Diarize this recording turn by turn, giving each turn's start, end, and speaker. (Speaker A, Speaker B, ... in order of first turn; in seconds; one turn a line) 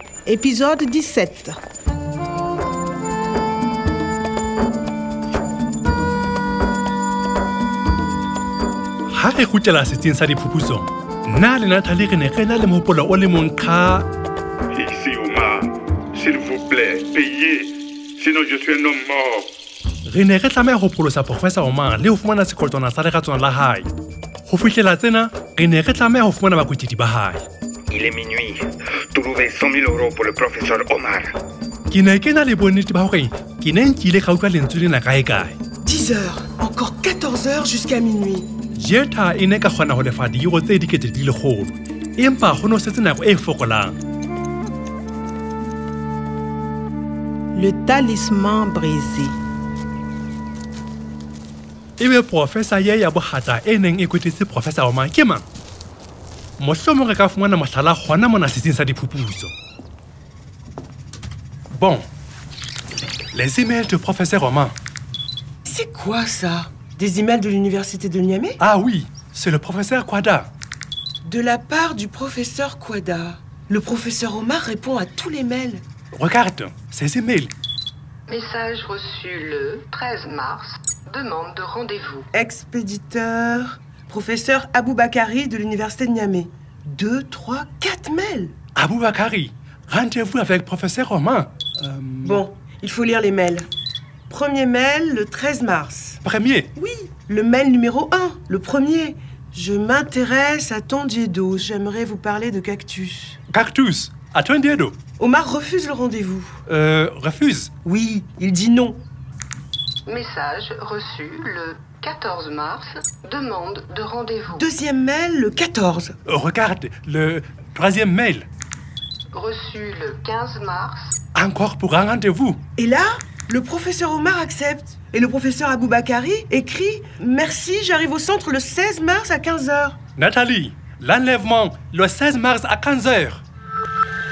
Speaker A: 0.3-1.6
Speaker B: 9.1-14.1
Speaker C: 14.8-15.6
Speaker C: 16.2-17.5
Speaker C: 18.2-19.4
Speaker B: 20.1-23.9
Speaker B: 24.5-27.4
Speaker D: 27.9-31.3
Speaker B: 31.9-35.6
Speaker E: 35.8-38.5
Speaker B: 38.8-44.0
Speaker A: 47.5-49.4
Speaker B: 52.0-55.5
Speaker B: 56.6-59.5
Speaker B: 61.7-62.1
Speaker B: 63.3-64.8
Speaker E: 65.6-68.6
Speaker B: 68.6-70.5
Speaker E: 71.2-75.8
Speaker B: 76.2-77.5
Speaker F: 78.3-82.3
Speaker E: 82.3-88.5
Speaker B: 88.8-92.4
Speaker E: 92.2-93.7
Speaker E: 94.3-96.2
Speaker B: 96.2-96.7
Speaker E: 96.8-103.4
Speaker B: 103.5-105.0
Speaker E: 105.2-106.6
Speaker B: 106.7-107.7
Speaker E: 107.8-109.0
Speaker F: 110.1-114.7
Speaker E: 114.6-116.1
Speaker B: 116.3-118.5
Speaker F: 119.3-121.2
Speaker B: 121.3-122.6
Speaker E: 122.8-130.0
Speaker B: 130.2-133.4